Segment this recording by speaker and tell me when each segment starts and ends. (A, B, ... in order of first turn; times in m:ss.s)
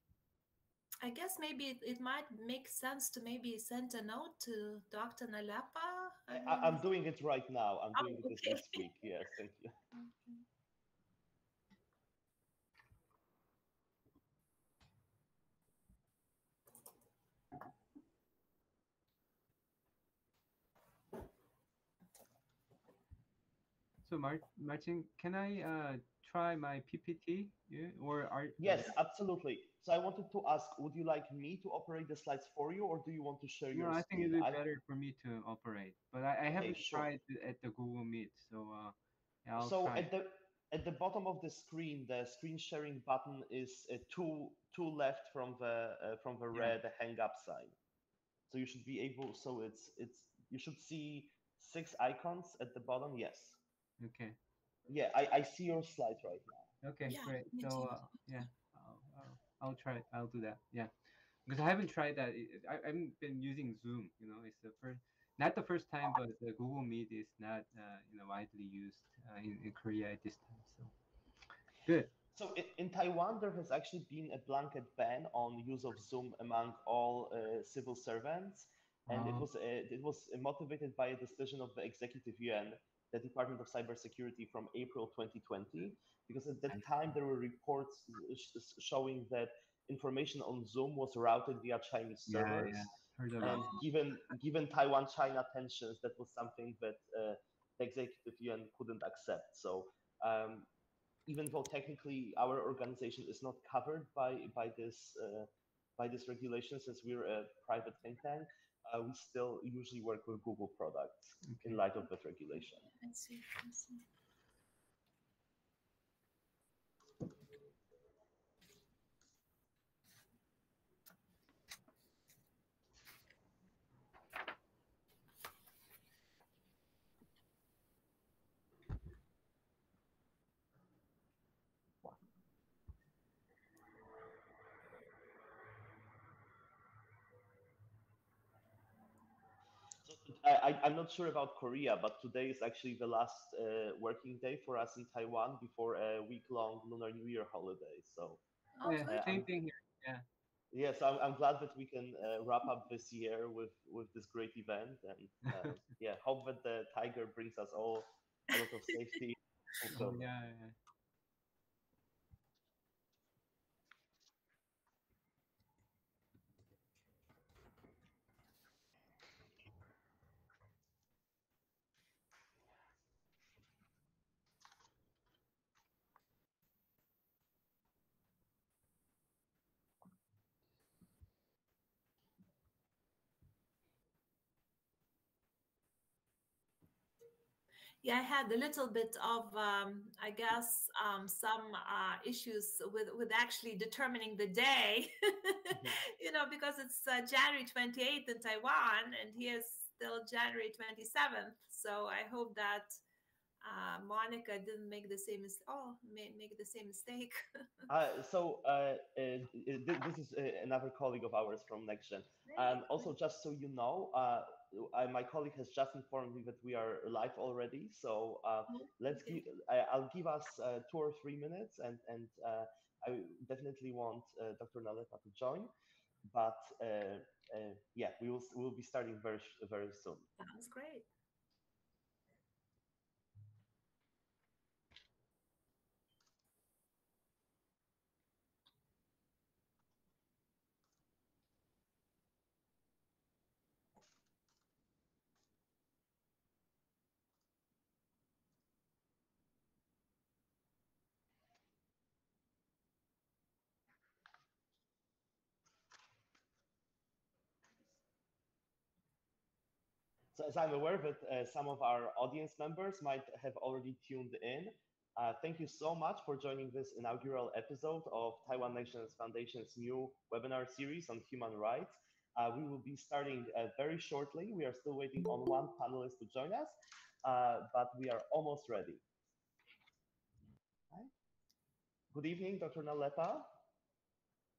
0:01.0-0:06.8 A
0:06.3-0:09.8 B
0:08.0-0:08.8 A
0:09.9-0:10.4 A
0:24.0-0:28.9 C
0:28.6-0:34.6 B
0:33.7-0:40.1 C
0:36.5-0:37.1 B
0:39.6-0:47.7 B
0:48.5-0:53.6 B
0:54.0-0:54.4 C
0:54.9-0:56.7 B
0:56.8-1:00.9 C
0:57.1-0:58.0 A
1:01.4-1:10.9 C
1:11.8-1:12.1 C
1:12.3-1:32.9 B
1:19.1-1:19.5 C
1:32.3-1:33.8 C
1:33.4-1:40.7 B
1:41.3-1:52.9 B
1:51.4-1:51.8 C
1:52.9-1:54.0 A
2:20.0-2:28.4 B
2:28.8-2:29.1 A
2:28.8-2:30.2 C
2:29.1-2:29.5 B
2:30.7-2:40.2 B
2:39.9-2:40.7 C
3:08.0-3:23.0 A
3:23.6-3:27.4 A
3:27.9-3:45.7 B
3:32.5-3:33.0 A
3:38.7-3:39.4 A
3:46.3-3:50.3 B
3:50.4-3:51.0 A
4:20.3-4:39.0 B
4:42.1-4:43.5 B